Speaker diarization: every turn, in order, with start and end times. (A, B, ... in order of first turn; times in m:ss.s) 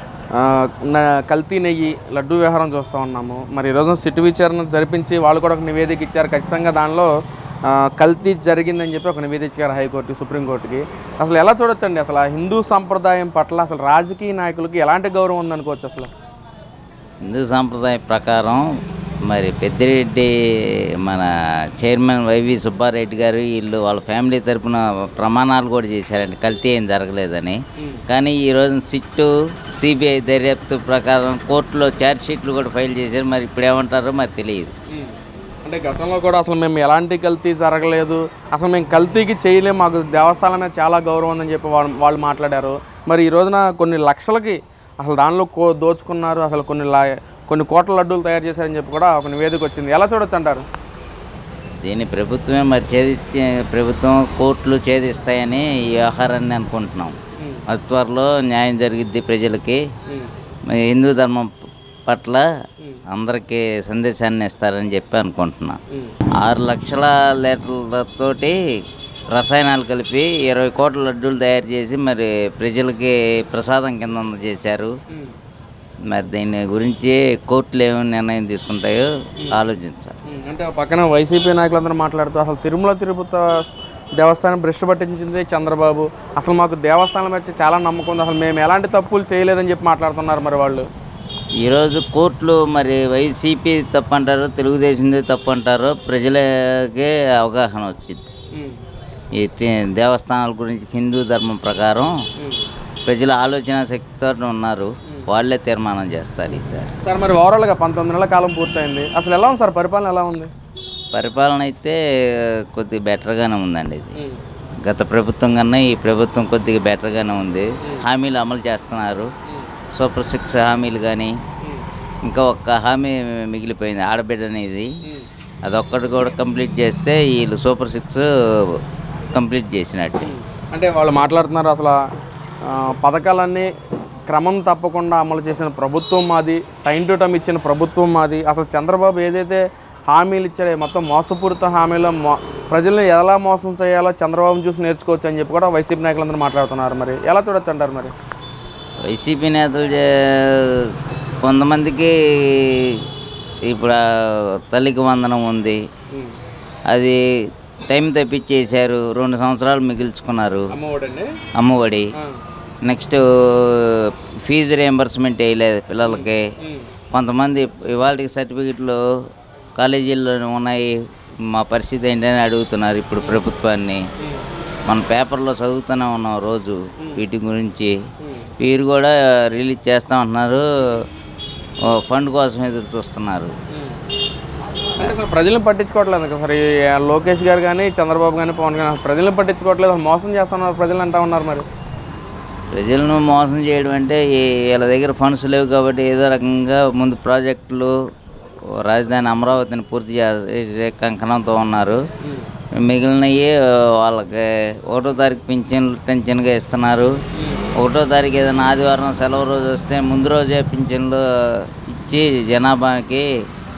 0:00.4-0:07.1 A
0:07.7-0:16.1 A
0:17.3-0:18.6 B
0:19.3-0:34.7 B
0:27.8-0:28.0 A
0:34.9-0:50.6 A
0:51.8-0:57.2 B
0:57.4-0:57.6 A
0:57.7-0:59.8 B
1:00.7-1:01.5 B
1:02.1-1:02.4 B
1:03.1-1:05.8 B
1:06.4-1:08.6 B
1:09.3-1:14.9 B
1:16.1-1:20.2 B
1:20.3-1:30.9 A
1:31.6-1:38.3 B
1:39.4-1:42.1 B
1:42.4-1:42.6 A
1:43.1-1:46.9 B
1:47.0-1:50.5 A
1:51.1-1:54.1 B
1:54.8-1:59.3 B
2:00.0-2:01.3 B
2:02.3-2:04.9 B
2:05.6-2:08.8 B
2:09.3-2:10.3 B
2:10.2-2:12.0 A
2:12.7-2:13.7 A
2:14.3-2:28.1 A
2:29.1-2:30.9 B
2:31.4-2:33.0 B
2:33.7-2:35.8 B
2:36.9-2:37.2 B
2:37.9-2:40.7 B
2:40.7-2:41.3 A
2:41.6-2:42.1 B
2:42.8-2:46.4 B
2:46.1-2:46.9 A
2:47.1-2:49.0 B
2:49.8-2:50.9 B
2:51.5-2:54.0 B
2:54.2-2:54.5 A
2:54.9-2:57.9 B
2:58.2-2:58.5 A
2:58.6-3:01.0 B
3:01.9-3:03.5 B
3:03.7-3:04.0 A
3:05.0-3:11.6 A
3:12.7-3:17.9 B
3:18.8-3:22.0 B
3:22.2-3:22.5 A
3:22.8-3:27.1 B
3:27.4-3:27.7 A
3:27.8-3:33.2 B